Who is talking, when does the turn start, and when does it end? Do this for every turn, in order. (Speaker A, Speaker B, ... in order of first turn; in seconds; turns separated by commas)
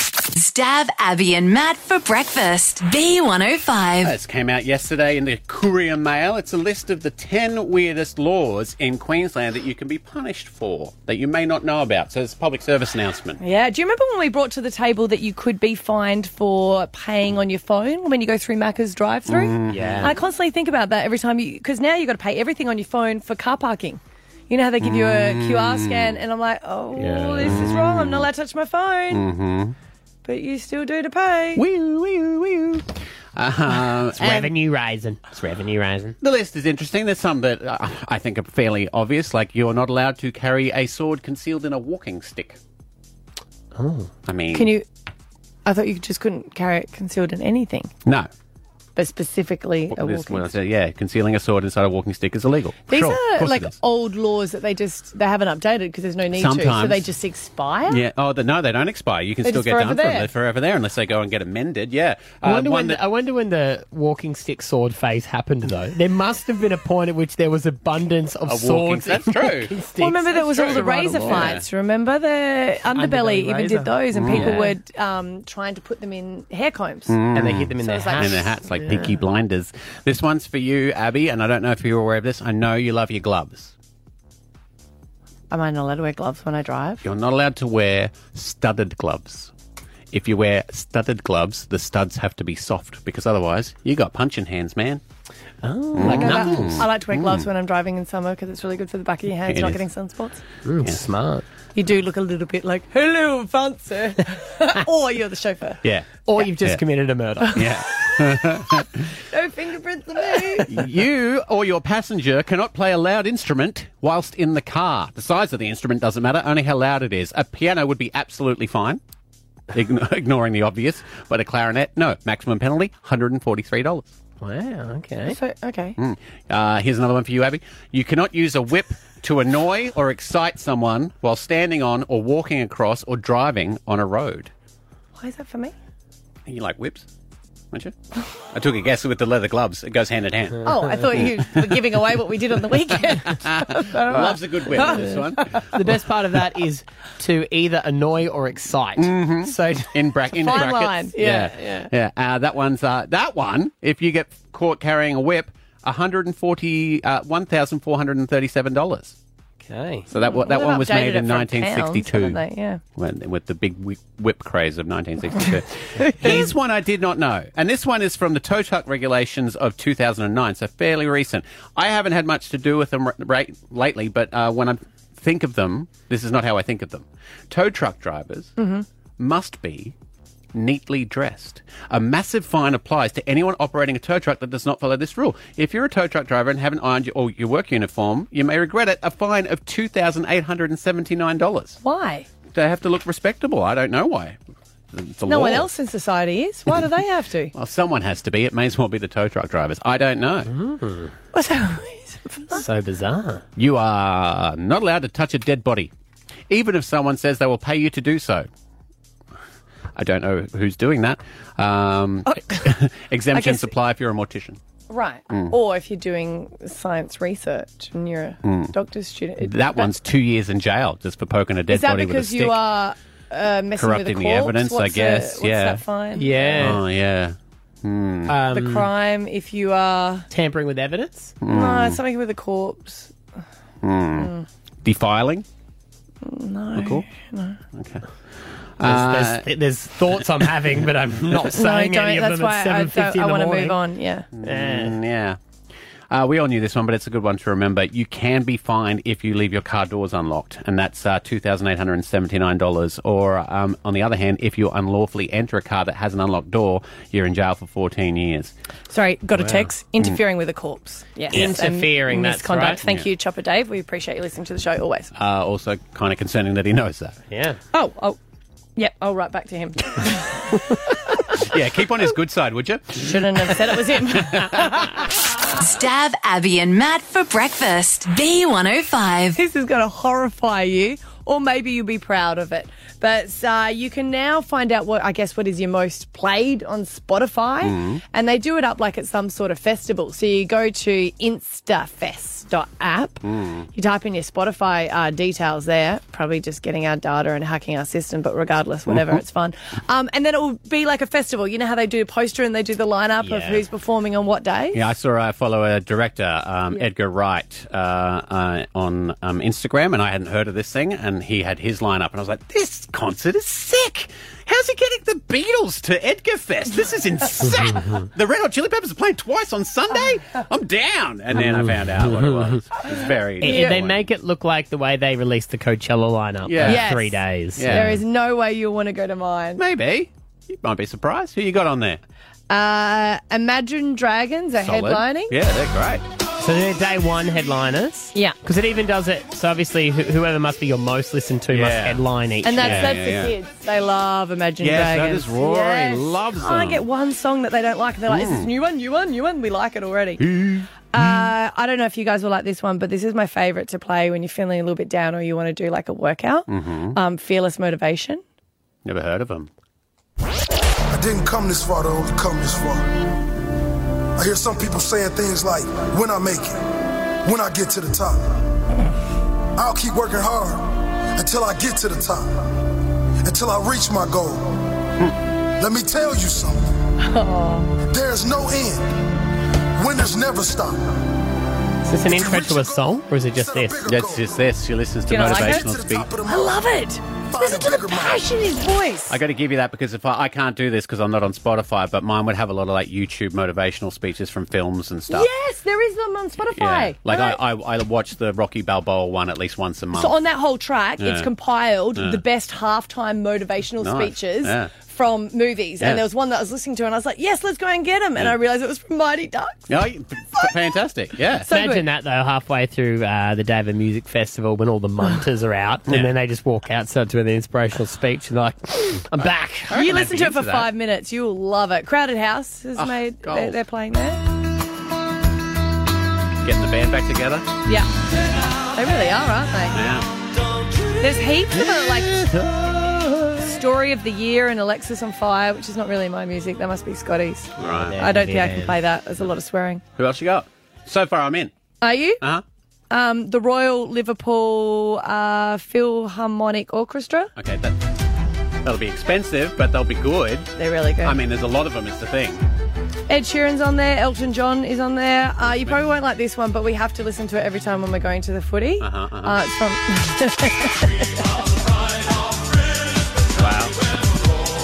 Speaker A: 0.3-4.2, Speaker B: 4.0-13.4, Speaker C: 13.4-29.2, Speaker B: 19.3-20.1, Speaker D: 19.7-20.1, Speaker B: 24.8-26.2, Speaker D: 27.0-27.7, Speaker B: 27.4-28.3, Speaker B: 29.1-29.8, Speaker C: 30.2-31.6, Speaker B: 31.6-34.5, Speaker D: 34.2-36.2, Speaker B: 36.2-42.6, Speaker D: 43.8-44.1, Speaker B: 44.3-44.7, Speaker C: 44.5-44.9, Speaker C: 45.7-47.9, Speaker C: 49.0-50.5, Speaker B: 49.9-53.7, Speaker C: 52.9-58.0, Speaker B: 56.3-57.1, Speaker B: 57.9-63.0, Speaker C: 59.4-60.3, Speaker D: 62.4-71.5, Speaker B: 68.5-69.7, Speaker C: 70.0-77.2, Speaker B: 70.5-71.6, Speaker D: 72.9-74.7, Speaker B: 74.1-74.6, Speaker B: 77.1-83.7, Speaker D: 77.3-79.2, Speaker C: 77.8-78.5, Speaker C: 85.5-87.0, Speaker B: 87.0-89.5, Speaker B: 90.1-95.0, Speaker D: 95.6-96.8, Speaker B: 96.0-97.5, Speaker C: 96.0-100.4, Speaker B: 99.5-99.8, Speaker D: 100.7-101.5, Speaker C: 101.8-105.8, Speaker B: 105.8-106.8, Speaker D: 106.2-107.7, Speaker C: 107.4-108.2, Speaker B: 107.5-109.1, Speaker C: 109.2-110.7, Speaker B: 110.6-119.0, Speaker B: 119.7-124.1, Speaker D: 124.4-125.4, Speaker C: 125.3-126.0, Speaker B: 126.0-134.5, Speaker C: 135.2-135.7, Speaker B: 136.5-137.1, Speaker B: 138.5-141.7, Speaker C: 140.6-145.7, Speaker B: 143.1-145.7, Speaker D: 144.7-145.2, Speaker D: 145.7-149.9, Speaker B: 149.0-159.2, Speaker C: 150.3-151.5, Speaker D: 151.5-151.9, Speaker D: 159.7-160.1, Speaker B: 160.1-162.4, Speaker C: 160.2-162.8, Speaker B: 163.0-178.6, Speaker C: 166.1-166.4, Speaker C: 178.6-178.9, Speaker B: 179.2-179.9, Speaker B: 180.5-191.8, Speaker C: 191.8-192.3, Speaker B: 192.5-194.4, Speaker B: 194.9-195.7, Speaker C: 195.3-197.5, Speaker B: 197.5-200.5, Speaker D: 200.5-201.1, Speaker C: 201.3-202.6, Speaker D: 202.5-203.4, Speaker B: 203.6-205.9, Speaker B: 206.5-208.5, Speaker B: 210.0-214.6, Speaker C: 212.3-212.7, Speaker C: 213.3-213.7, Speaker C: 214.9-219.9, Speaker B: 215.3-215.6, Speaker B: 218.4-218.7, Speaker B: 219.4-222.6, Speaker C: 221.7-226.8, Speaker B: 223.8-225.8, Speaker D: 226.2-226.8, Speaker B: 226.6-228.3, Speaker D: 228.3-228.9, Speaker C: 228.5-230.3, Speaker D: 230.3-231.3, Speaker B: 231.4-232.0, Speaker C: 231.5-233.1, Speaker B: 233.8-234.3, Speaker C: 234.2-234.5, Speaker B: 234.8-235.4, Speaker C: 236.2-237.6, Speaker B: 236.8-237.1, Speaker B: 237.8-238.1, Speaker B: 238.8-239.4, Speaker D: 238.8-243.8, Speaker C: 241.5-244.3, Speaker B: 244.4-245.4, Speaker D: 244.4-245.0, Speaker B: 246.1-258.5, Speaker C: 258.9-265.1, Speaker B: 259.4-260.2, Speaker D: 261.3-262.8, Speaker B: 265.2-267.2, Speaker D: 267.3-267.6, Speaker C: 267.7-268.2, Speaker C: 268.8-270.5, Speaker B: 271.3-274.9, Speaker C: 273.0-274.9, Speaker A: 275.6-279.4, Speaker C: 279.4-304.8, Speaker B: 287.6-288.0, Speaker B: 293.2-293.7, Speaker B: 298.9-299.2, Speaker D: 303.2-303.6, Speaker B: 304.7-324.1, Speaker D: 321.3-322.6, Speaker C: 323.4-323.8, Speaker D: 323.4-328.0, Speaker B: 326.4-326.9, Speaker C: 326.6-329.6, Speaker B: 327.6-328.0, Speaker B: 329.6-332.0, Speaker C: 332.5-335.3, Speaker B: 334.6-336.1, Speaker D: 336.4-343.0, Speaker B: 341.5-342.0, Speaker C: 342.4-350.2, Speaker B: 342.6-343.4, Speaker B: 344.6-346.8, Speaker B: 348.1-348.5, Speaker B: 350.2-351.1, Speaker C: 350.9-358.2, Speaker B: 356.5-357.0, Speaker B: 358.9-359.5, Speaker E: 360.9-362.9, Speaker E: 364.2-366.6, Speaker E: 367.2-368.4, Speaker E: 369.6-372.7, Speaker E: 373.2-374.7, Speaker E: 375.6-376.7, Speaker C: 377.0-377.7, Speaker E: 377.9-379.0, Speaker E: 379.8-381.1, Speaker D: 381.9-383.8, Speaker E: 382.1-384.4, Speaker B: 383.9-386.1, Speaker C: 385.1-385.7, Speaker E: 385.2-386.6, Speaker C: 386.2-389.2, Speaker E: 387.3-388.4, Speaker B: 389.1-395.3, Speaker C: 395.1-397.4, Speaker B: 396.6-400.2, Speaker C: 399.9-409.7, Speaker B: 401.0-401.3, Speaker B: 402.0-402.2, Speaker B: 403.8-404.7, Speaker B: 405.8-406.1, Speaker B: 409.7-411.5, Speaker C: 411.4-411.8, Speaker D: 411.5-419.9, Speaker B: 419.7-420.7, Speaker C: 419.7-424.2, Speaker B: 422.8-423.6, Speaker B: 426.4-427.5, Speaker C: 428.7-429.8, Speaker B: 429.7-430.1, Speaker C: 431.0-432.1, Speaker B: 431.5-433.5, Speaker C: 433.4-439.8, Speaker B: 437.6-438.0, Speaker D: 437.6-438.8, Speaker B: 440.0-441.5, Speaker C: 441.8-442.2, Speaker C: 442.9-447.3, Speaker B: 447.4-447.8, Speaker B: 448.6-450.5, Speaker C: 450.6-451.2, Speaker B: 451.0-452.4, Speaker C: 453.1-461.2, Speaker B: 458.8-459.4, Speaker B: 463.4-463.8